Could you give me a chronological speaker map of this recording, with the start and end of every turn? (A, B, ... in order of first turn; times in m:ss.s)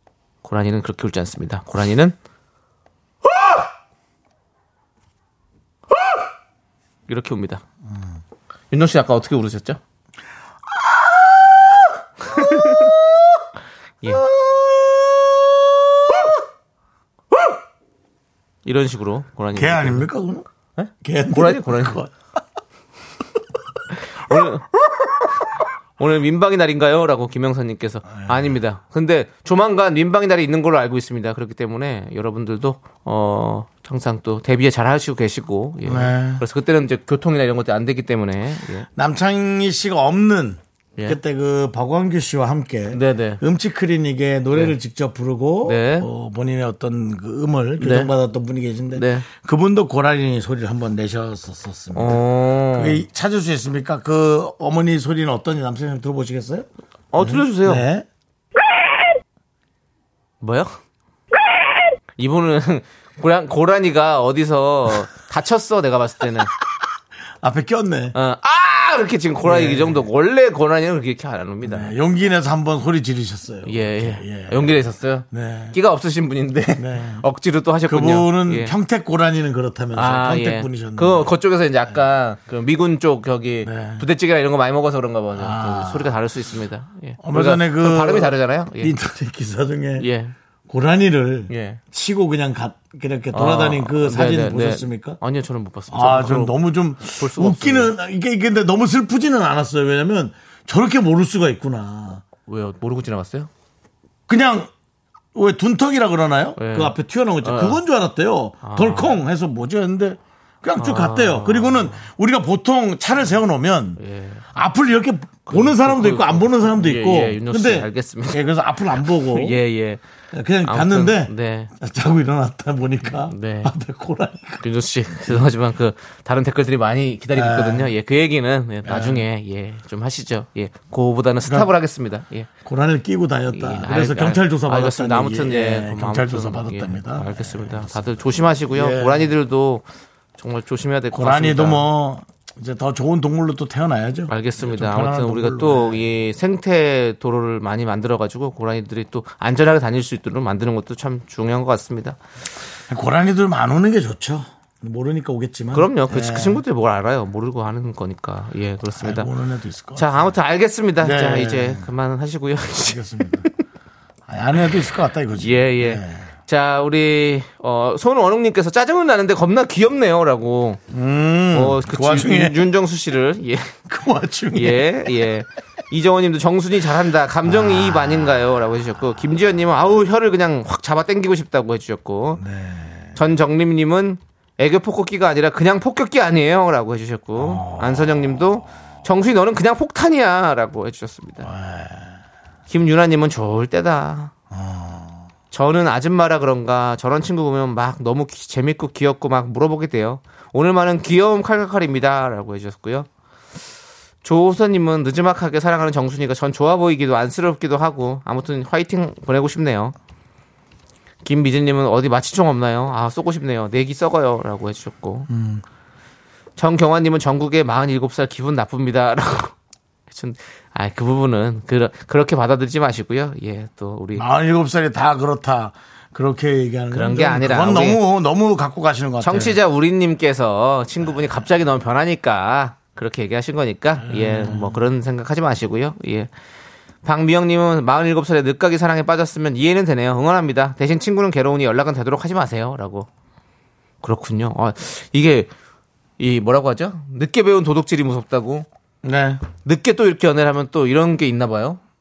0:00.4-0:02.1 A
0:07.1-0:07.6 A
0:08.7-0:09.8 A
0:10.7-0:13.0 B
0:14.1-0:16.4 B
0:18.6-0:20.1 A
0:19.5-0:20.5 B
0:20.8-0:22.0 A
0:21.0-0:22.1 B
0:24.2-0:24.6 A
0:26.0-0:38.9 A
0:28.2-0:28.5 B
0:35.8-0:36.4 B
0:39.0-0:52.2 B
0:42.9-0:43.4 A
0:45.6-0:46.1 A
0:47.8-0:48.1 A
0:48.9-0:49.3 A
0:51.9-0:53.0 A
0:52.7-0:56.7 B
0:57.1-0:57.8 A
0:57.2-0:58.0 B
1:00.4-1:00.7 A
1:02.2-1:06.5 A
1:07.4-1:08.1 B
1:08.1-1:11.9 A
1:09.4-1:10.1 B
1:11.6-1:14.8 B
1:13.6-1:18.7 A
1:15.3-1:15.8 B
1:16.8-1:17.2 B
1:17.9-1:21.3 B
1:19.9-1:28.9 A
1:23.6-1:24.0 B
1:25.4-1:26.1 B
1:27.2-1:30.1 B
1:30.0-1:30.3 A
1:30.7-1:35.2 B
1:31.5-1:31.8 A
1:33.3-1:37.9 A
1:35.9-1:42.2 B
1:42.5-1:43.5 A
1:44.3-1:44.7 B
1:45.3-1:54.0 B
1:46.6-1:47.8 A
1:48.6-1:49.2 A
1:50.8-1:52.0 A
1:54.0-1:54.4 A
1:54.5-1:59.6 B
1:55.5-1:58.4 A
1:59.3-2:00.0 A
2:00.3-2:04.6 B
2:00.6-2:01.7 A
2:03.2-2:03.7 A
2:04.6-2:12.5 A
2:07.3-2:07.9 B
2:08.8-2:09.2 B
2:12.6-2:19.3 B
2:13.5-2:19.8 A
2:20.4-2:21.8 A
2:21.1-2:26.0 B
2:24.3-2:32.2 A
2:32.9-2:36.6 B
2:35.7-2:39.3 A
2:38.9-2:40.3 B
2:40.0-2:43.5 A
2:41.0-2:41.9 B
2:42.8-2:43.4 B
2:44.3-2:46.3 B
2:45.4-2:50.8 A
2:50.9-2:52.6 B
2:51.5-2:53.7 A
2:53.9-2:55.1 B
2:54.5-3:02.4 A
2:57.4-2:58.5 B
3:02.4-3:03.1 B
3:03.2-3:11.5 A
3:07.4-3:08.6 B
3:11.4-3:12.2 B
3:12.7-3:14.3 A
3:14.5-3:15.2 B
3:15.5-3:23.1 A
3:24.2-3:29.9 A
3:31.2-3:35.3 A
3:35.3-3:35.6 B
3:36.6-3:39.5 A
3:40.1-3:44.2 A
3:44.2-3:49.6 B
3:46.9-3:48.0 A
3:49.2-3:56.3 A
3:54.0-3:54.8 B
3:57.0-4:03.1 A
4:04.0-4:05.5 A
4:06.2-4:08.7 A
4:09.0-4:09.4 B
4:09.6-4:11.8 A